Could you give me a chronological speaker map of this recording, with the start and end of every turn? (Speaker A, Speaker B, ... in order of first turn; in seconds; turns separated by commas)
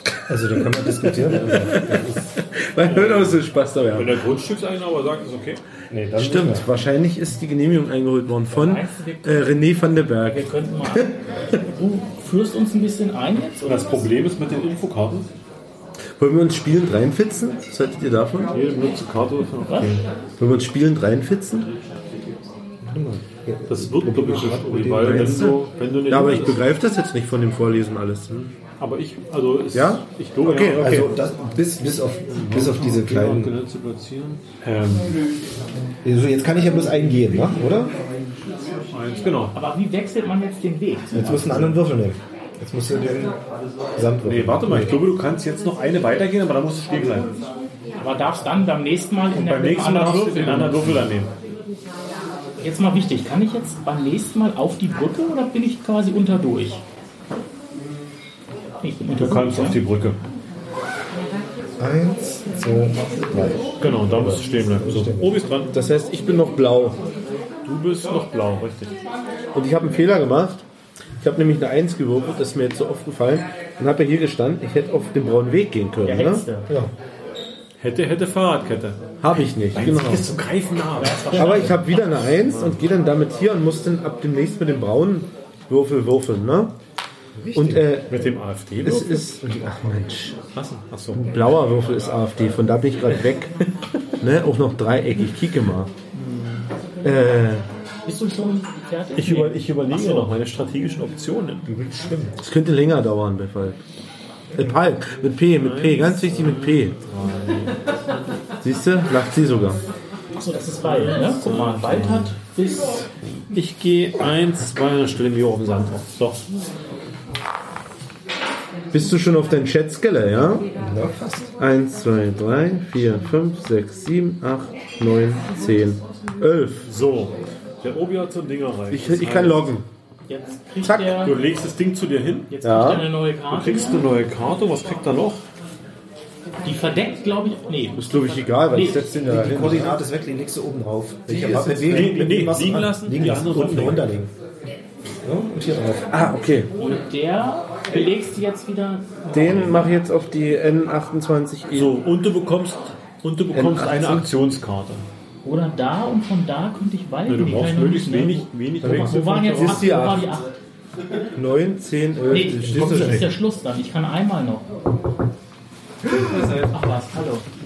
Speaker A: 0.3-2.3, Speaker B: 0.5-4.2, Speaker C: 1.3-1.8, Speaker C: 2.8-5.6, Speaker A: 5.9-6.7, Speaker B: 6.2-11.1, Speaker D: 8.5-9.6, Speaker D: 10.3-14.1, Speaker C: 13.7-15.3, Speaker B: 16.2-18.5, Speaker C: 18.5-20.0, Speaker D: 19.6-19.9, Speaker B: 20.4-21.7, Speaker A: 22.8-25.6, Speaker C: 23.7-26.7, Speaker B: 24.9-28.5, Speaker C: 28.8-31.2, Speaker B: 29.7-31.1, Speaker A: 30.7-33.5, Speaker C: 32.3-35.2, Speaker A: 36.0-37.9, Speaker C: 38.9-39.5, Speaker D: 39.5-41.8, Speaker A: 41.1-43.4, Speaker A: 44.0-45.0, Speaker C: 44.2-47.4, Speaker D: 48.0-51.0, Speaker C: 49.3-51.3, Speaker D: 52.6-56.8, Speaker D: 58.8-59.8, Speaker C: 59.1-60.2, Speaker A: 61.8-65.4, Speaker C: 63.8-65.7, Speaker B: 65.7-67.0, Speaker C: 67.6-68.9, Speaker B: 69.5-70.6, Speaker B: 71.2-76.4, Speaker D: 76.0-76.7, Speaker C: 77.8-79.1, Speaker B: 79.2-80.3, Speaker C: 79.7-82.8, Speaker D: 80.9-81.8, Speaker B: 81.3-86.7, Speaker A: 87.3-88.0, Speaker B: 87.5-90.4, Speaker C: 88.1-89.3, Speaker C: 90.5-91.5, Speaker B: 91.1-93.5, Speaker B: 94.2-95.9, Speaker C: 96.1-96.7, Speaker B: 97.0-97.7, Speaker D: 98.0-100.3, Speaker C: 99.1-101.7, Speaker A: 101.7-102.3, Speaker B: 102.4-103.8, Speaker A: 104.5-104.8, Speaker B: 104.5-106.9, Speaker C: 105.5-107.8, Speaker B: 108.6-109.8, Speaker D: 110.3-113.1, Speaker C: 110.8-112.3, Speaker C: 113.5-116.4, Speaker B: 118.9-120.7, Speaker A: 120.8-121.5, Speaker B: 121.6-126.9, Speaker C: 126.8-129.7, Speaker B: 128.9-129.9, Speaker D: 130.3-131.3, Speaker B: 130.8-131.2, Speaker C: 131.2-132.5, Speaker D: 132.5-134.1, Speaker B: 132.6-133.1, Speaker C: 133.5-135.4, Speaker D: 136.6-139.2, Speaker B: 137.9-140.0, Speaker A: 139.2-144.3, Speaker B: 141.3-142.1, Speaker C: 141.8-144.1, Speaker A: 145.2-146.1, Speaker B: 146.1-146.7, Speaker D: 146.8-149.6, Speaker B: 149.3-152.0, Speaker C: 149.3-149.9, Speaker C: 151.7-155.1, Speaker B: 153.5-154.3, Speaker D: 155.4-160.5, Speaker C: 157.3-160.0, Speaker B: 158.8-160.3, Speaker B: 161.3-163.3, Speaker D: 162.3-164.7, Speaker B: 166.3-166.7, Speaker D: 166.6-167.4